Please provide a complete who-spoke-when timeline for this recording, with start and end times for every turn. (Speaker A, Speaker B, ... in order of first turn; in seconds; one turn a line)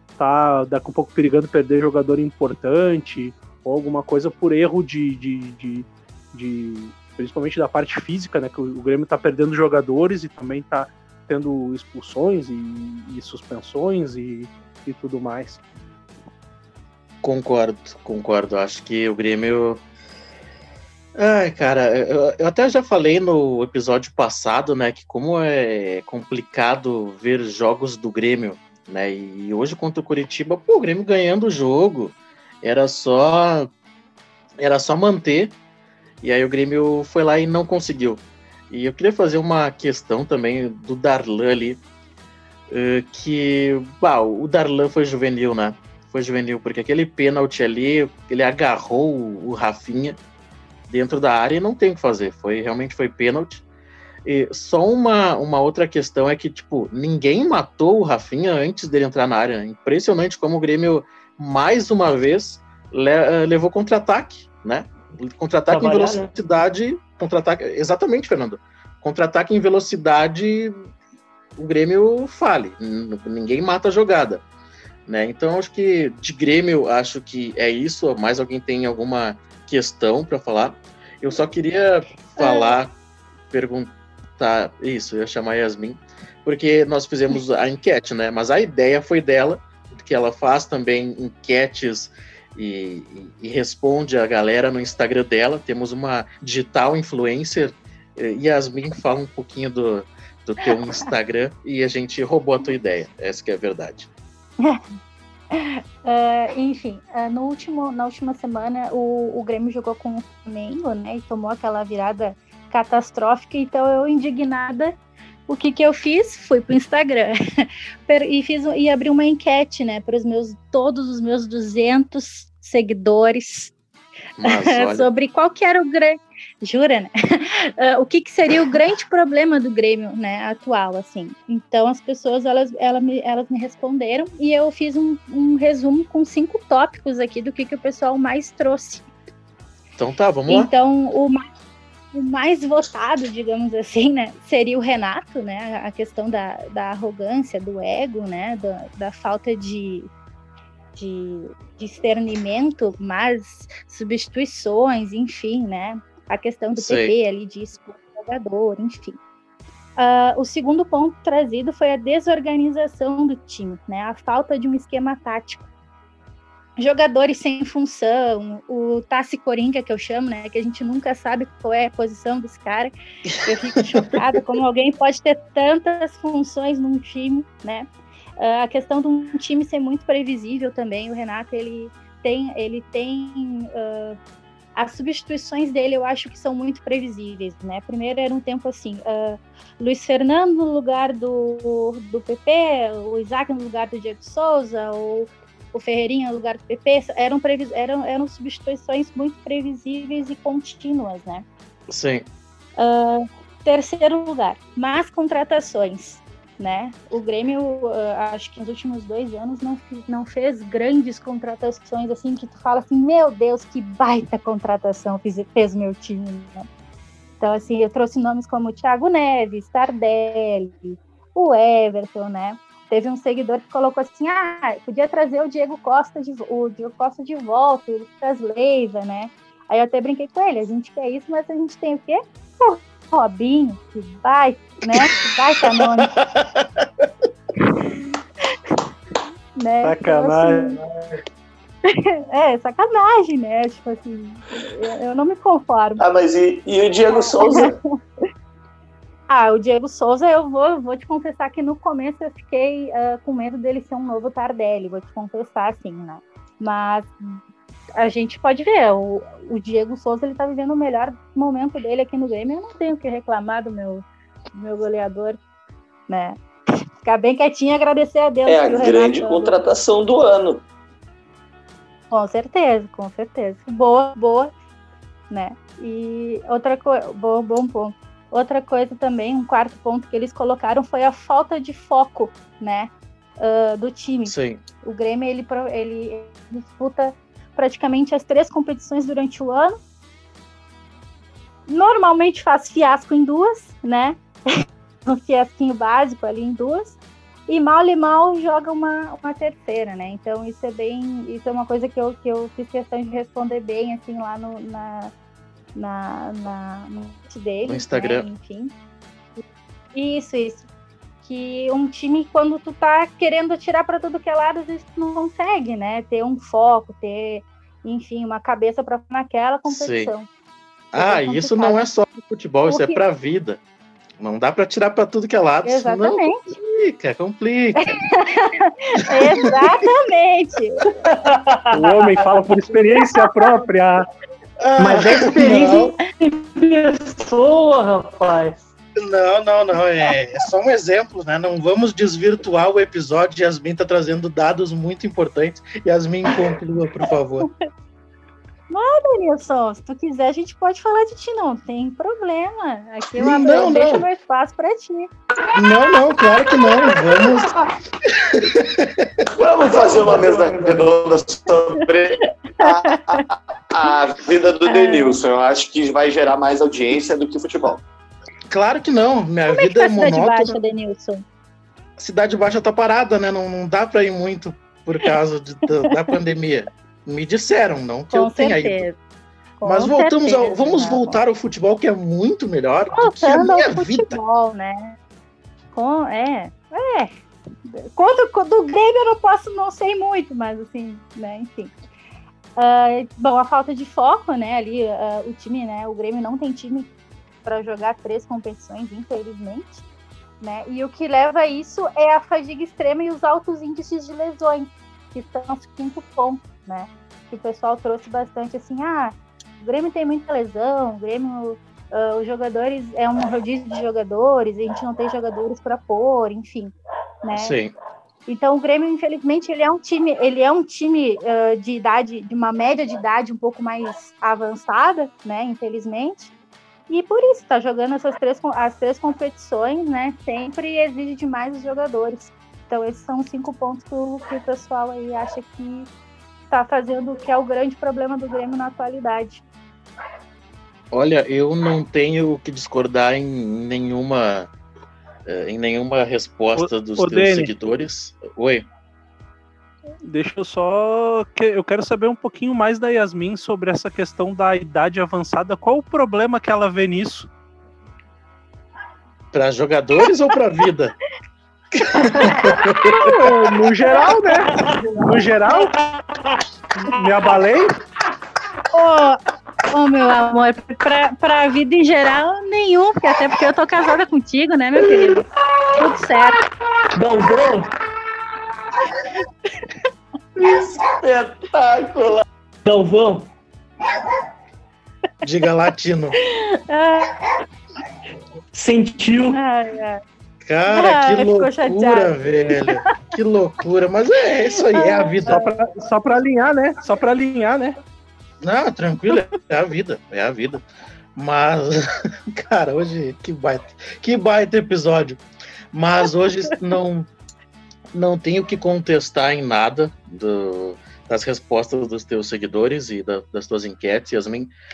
Speaker A: 0.2-15.6
Speaker B: 17.2-19.8
Speaker B: 21.1-33.7
Speaker B: 34.6-35.5
Speaker B: 36.2-41.8
Speaker B: 42.7-50.2
Speaker B: 50.9-53.6
Speaker B: 54.2-70.7
Speaker C: 65.7-66.3
Speaker B: 71.5-74.4
Speaker B: 75.0-82.9
Speaker D: 82.4-82.7
Speaker B: 83.5-104.1
Speaker D: 105.5-114.9
Speaker D: 115.5-123.7
Speaker B: 124.4-125.1
Speaker D: 124.4-139.1
Speaker B: 140.0-140.7
Speaker D: 140.5-141.4
Speaker D: 142.1-150.1
Speaker D: 150.9-159.2
Speaker B: 156.8-157.1
Speaker D: 160.0-165.7
Speaker D: 166.8-172.9
Speaker B: 173.2-174.2
Speaker D: 173.4-184.2
Speaker D: 184.7-201.4
Speaker B: 201.9-202.2
Speaker D: 202.8-216.7
Speaker D: 217.4-236.1
Speaker B: 235.8-236.8
Speaker D: 239.6-240.8
Speaker A: 239.8-241.2
Speaker D: 241.9-246.0
Speaker E: 246.0-247.8
Speaker D: 247.1-247.7
Speaker D: 249.3-257.4
Speaker D: 258.0-265.4
Speaker D: 266.1-266.4
Speaker D: 267.0-269.5
Speaker E: 268.5-270.6
Speaker D: 272.1-274.5
Speaker D: 275.3-289.8
Speaker B: 284.2-284.6
Speaker D: 291.7-305.1
Speaker D: 305.7-308.7
Speaker B: 307.7-308.3
Speaker D: 309.9-310.6
Speaker D: 311.2-320.3
Speaker B: 319.7-320.1
Speaker B: 320.9-323.6
Speaker D: 320.9-321.8
Speaker D: 322.7-323.0
Speaker B: 324.2-327.8
Speaker D: 325.6-326.4
Speaker D: 327.8-330.8
Speaker C: 330.9-332.3
Speaker A: 331.7-334.0
Speaker B: 334.6-335.9
Speaker C: 334.8-338.7
Speaker B: 339.0-347.5
Speaker D: 348.7-355.1
Speaker B: 353.2-354.0
Speaker B: 355.6-357.5
Speaker B: 358.1-359.3
Speaker E: 359.4-367.8
Speaker D: 364.6-365.2
Speaker B: 368.5-370.6
Speaker D: 369.5-371.2
Speaker B: 372.0-378.8
Speaker D: 378.1-379.0
Speaker D: 379.6-381.2
Speaker B: 379.6-384.2
Speaker D: 382.9-385.0
Speaker D: 385.7-387.1
Speaker D: 387.7-391.7
Speaker D: 392.6-396.9
Speaker D: 397.4-399.8
Speaker D: 400.4-417.6
Speaker B: 417.3-417.7
Speaker D: 418.3-426.3
Speaker D: 426.9-435.9
Speaker D: 436.5-439.4
Speaker B: 440.9-444.5
Speaker B: 445.2-448.6
Speaker A: 446.5-447.5
Speaker A: 450.0-457.3
Speaker B: 459.3-460.9
Speaker D: 461.9-462.5
Speaker B: 462.0-463.1
Speaker D: 463.0-464.5
Speaker A: 463.2-465.7
Speaker C: 464.5-464.8
Speaker C: 465.5-466.4
Speaker A: 466.9-467.7
Speaker D: 468.7-476.4
Speaker C: 476.9-477.7
Speaker E: 480.4-482.2
Speaker C: 482.6-483.3
Speaker B: 485.2-486.1
Speaker D: 486.7-487.2
Speaker C: 488.5-489.4
Speaker D: 489.3-490.0
Speaker B: 490.4-495.4
Speaker D: 490.7-492.2
Speaker D: 494.7-495.6
Speaker A: 495.3-497.8
Speaker B: 498.4-500.6
Speaker B: 501.1-505.2
Speaker B: 505.7-507.1
Speaker B: 507.9-514.5